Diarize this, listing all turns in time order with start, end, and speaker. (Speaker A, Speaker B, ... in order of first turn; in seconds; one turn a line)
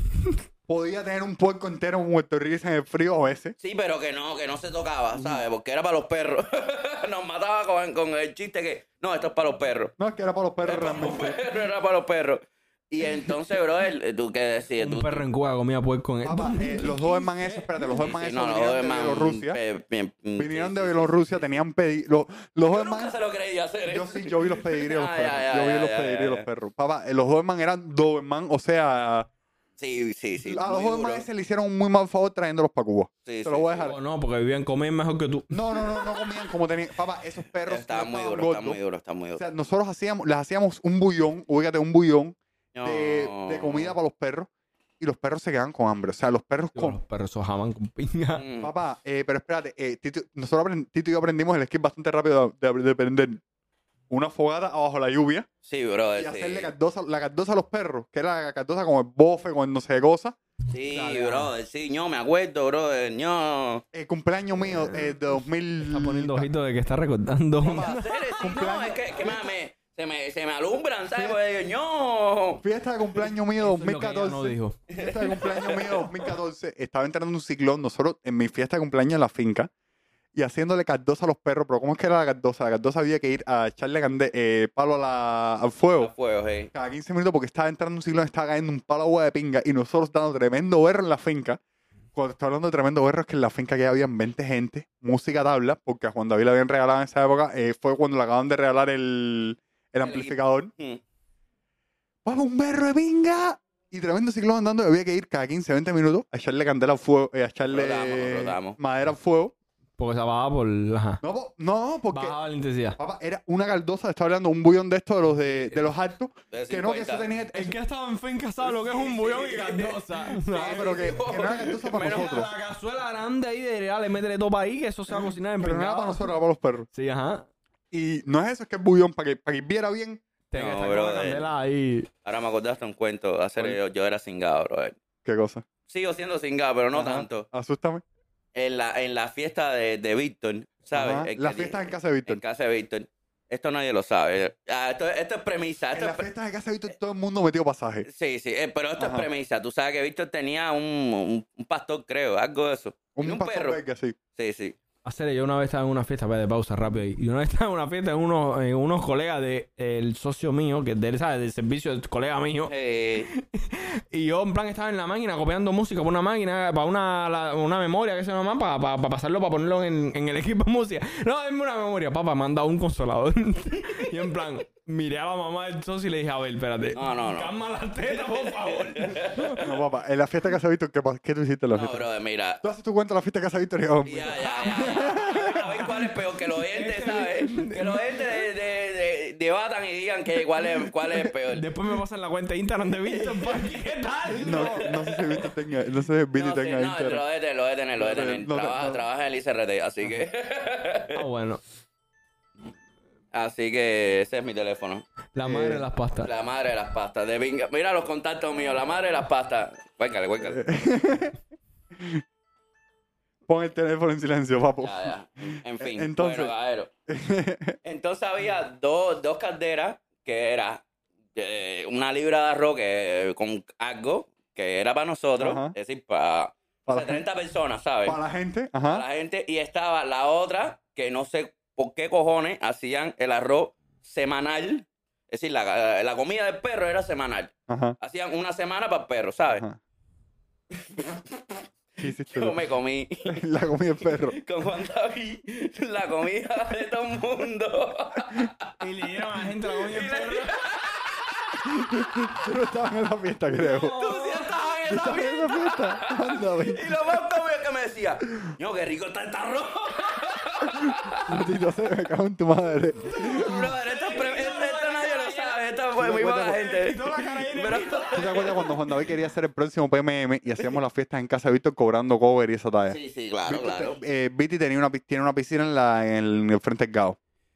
Speaker A: 0.7-3.5
Speaker B: 3.6-9.9
Speaker A: 5.1-5.4
Speaker A: 10.0-11.4
Speaker B: 10.6-15.3
Speaker A: 13.0-13.3
Speaker C: 14.8-17.9
Speaker A: 16.2-19.6
Speaker B: 17.9-21.3
Speaker A: 20.4-23.2
Speaker B: 22.7-26.5
Speaker A: 23.9-29.3
Speaker B: 29.8-31.3
Speaker A: 30.4-34.0
Speaker B: 33.2-33.9
Speaker C: 33.9-35.6
Speaker A: 35.5-38.8
Speaker B: 37.7-39.4
Speaker A: 39.4-44.5
Speaker B: 42.7-44.0
Speaker A: 45.0-47.0
Speaker C: 46.7-48.4
Speaker B: 48.3-48.7
Speaker A: 48.6-53.4
Speaker A: 54.1-55.5
Speaker B: 55.6-56.7
Speaker A: 56.2-60.4
Speaker B: 60.7-63.9
Speaker C: 60.9-61.5
Speaker A: 63.9-66.5
Speaker C: 64.7-65.3
Speaker C: 65.8-68.2
Speaker B: 67.6-72.6
Speaker A: 67.7-69.5
Speaker A: 71.1-71.4
Speaker A: 72.6-79.7
Speaker C: 73.6-74.8
Speaker B: 74.9-76.0
Speaker A: 80.3-86.1
Speaker B: 86.0-86.7
Speaker A: 86.7-91.6
Speaker A: 92.1-100.7
Speaker B: 100.0-101.0
Speaker A: 102.2-109.5
Speaker B: 107.7-108.8
Speaker C: 110.0-111.2
Speaker A: 111.2-112.4
Speaker C: 112.1-113.0
Speaker A: 113.0-117.8
Speaker C: 115.5-115.9
Speaker B: 116.5-117.3
Speaker C: 117.5-120.9
Speaker B: 118.6-122.5
Speaker A: 120.5-122.5
Speaker C: 122.0-126.3
Speaker A: 125.6-126.9
Speaker C: 126.9-127.5
Speaker A: 127.9-130.2
Speaker C: 130.5-132.1
Speaker B: 130.5-131.5
Speaker B: 132.2-135.0
Speaker A: 135.2-135.7
Speaker B: 135.9-137.5
Speaker A: 136.9-138.0
Speaker B: 138.5-146.3
Speaker A: 140.9-142.4
Speaker A: 145.9-148.1
Speaker B: 148.1-153.8
Speaker A: 149.0-149.3
Speaker A: 153.2-154.2
Speaker B: 154.4-154.8
Speaker C: 155.0-162.7
Speaker B: 162.7-163.3
Speaker C: 163.3-179.6
Speaker B: 176.9-179.7
Speaker A: 179.6-182.1
Speaker B: 181.7-182.6
Speaker A: 182.6-185.5
Speaker B: 184.1-191.7
Speaker C: 184.4-188.4
Speaker C: 191.1-194.9
Speaker B: 193.1-193.6
Speaker A: 194.4-197.2
Speaker B: 194.4-195.5
Speaker B: 196.3-201.2
Speaker A: 198.0-199.0
Speaker C: 201.2-201.6
Speaker B: 203.3-205.1
Speaker C: 205.3-206.3
Speaker A: 205.4-205.8
Speaker B: 206.2-210.6
Speaker A: 210.4-211.4
Speaker A: 213.5-216.5
Speaker B: 214.8-216.9
Speaker A: 217.1-217.8
Speaker B: 217.8-220.8
Speaker B: 221.3-228.2
Speaker A: 225.4-225.8
Speaker A: 226.9-227.2
Speaker A: 228.1-229.1
Speaker B: 228.9-239.6
Speaker A: 237.7-238.0
Speaker A: 239.5-239.8
Speaker B: 240.8-241.4
Speaker A: 242.0-242.6
Speaker B: 242.2-243.4
Speaker A: 243.2-244.4
Speaker B: 244.0-248.8
Speaker C: 248.8-250.5
Speaker B: 249.6-251.7
Speaker A: 251.7-254.0
Speaker C: 253.6-254.8
Speaker B: 253.9-261.3
Speaker A: 254.9-256.9
Speaker A: 261.2-263.7
Speaker C: 263.1-265.6
Speaker B: 263.1-268.7
Speaker A: 266.0-266.6
Speaker C: 266.5-268.7
Speaker A: 268.1-277.2
Speaker B: 272.9-274.0